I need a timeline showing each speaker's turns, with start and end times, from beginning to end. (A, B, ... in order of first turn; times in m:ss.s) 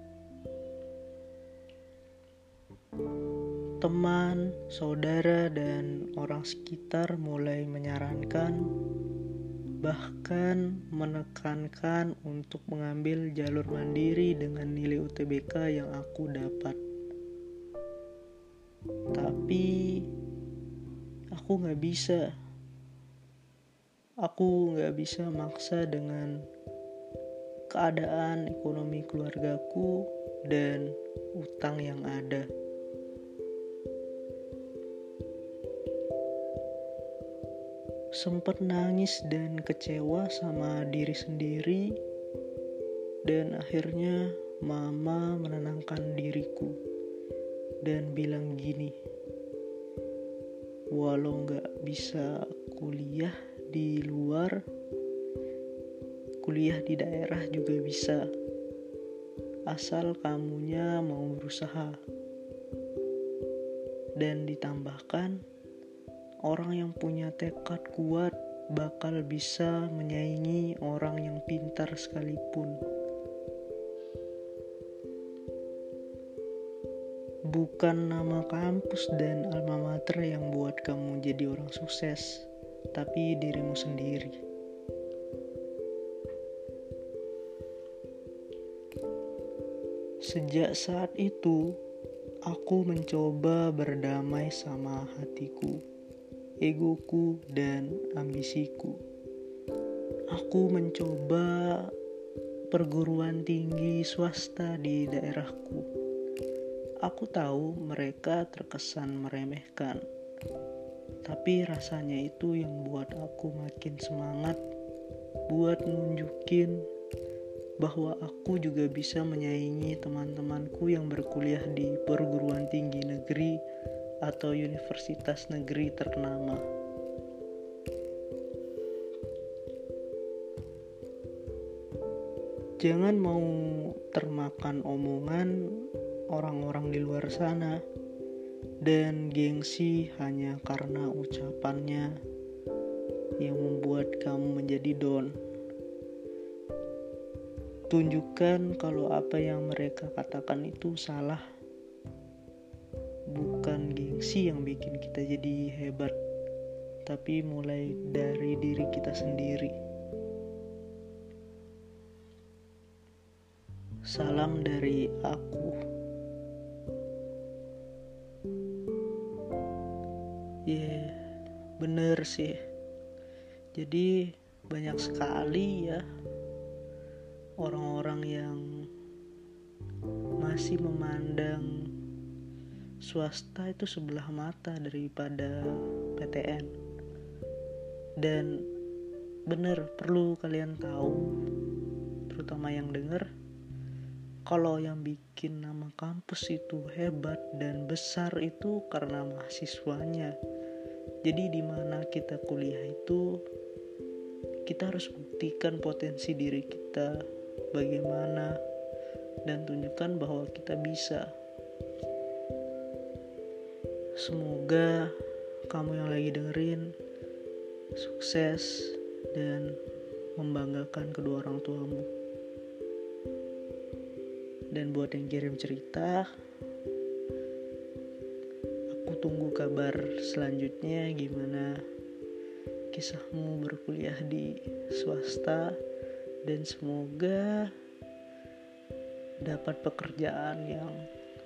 0:03.8-0:08.7 A
0:09.8-0:16.8 A
0:19.1-0:20.1 A
0:21.4-0:22.2 A
0:24.2-0:26.4 A
0:27.7-0:32.5 A
0:38.2-0:42.0 A
0:43.2-0:46.8 A
0:47.8-0:49.0 A
0:50.9-0:54.6 A
0:56.4-0:58.3 A
0:59.7-1:02.0 A
1:04.2-1:05.4 A
1:06.4-1:12.8 A
1:17.5-1:24.4 A
1:30.2-1:31.7 A
1:32.5-1:35.8 A
1:36.6-1:39.0 A
1:40.3-1:41.9 A
1:42.7-1:45.8 A
1:47.0-1:50.0 A
1:51.2-1:54.6 A
1:55.5-1:56.8 A
1:57.8-2:03.6 A
2:04.2-2:06.6 A
2:12.8-2:17.8 A
2:18.8-2:22.2 A
2:23.4-2:25.4 A
2:27.9-2:31.4 A
2:33.3-2:36.2 A
2:37.1-2:39.8 A
2:44.1-2:45.8 A
2:50.7-2:51.2 A
2:51.8-2:52.6 A
2:53.8-2:56.1 A
2:57.6-2:58.9 A
3:00.4-3:01.9 A
3:03.0-3:06.7 A
3:08.2-3:08.5 A
3:09.5-3:11.3 A
3:12.3-3:13.3 A
3:14.5-3:20.4 A
3:21.2-3:23.4 A
3:24.7-3:27.2 A
3:27.7-3:28.6 A
3:29.5-3:31.3 A
3:34.2-3:35.1 A
3:35.7-3:36.9 A
3:38.0-3:39.8 A
3:40.4-3:42.1 A
3:44.7-3:46.3 A
3:48.9-3:51.8 A
3:52.9-3:55.8 A
3:56.4-3:57.7 A
3:59.4-4:01.0 A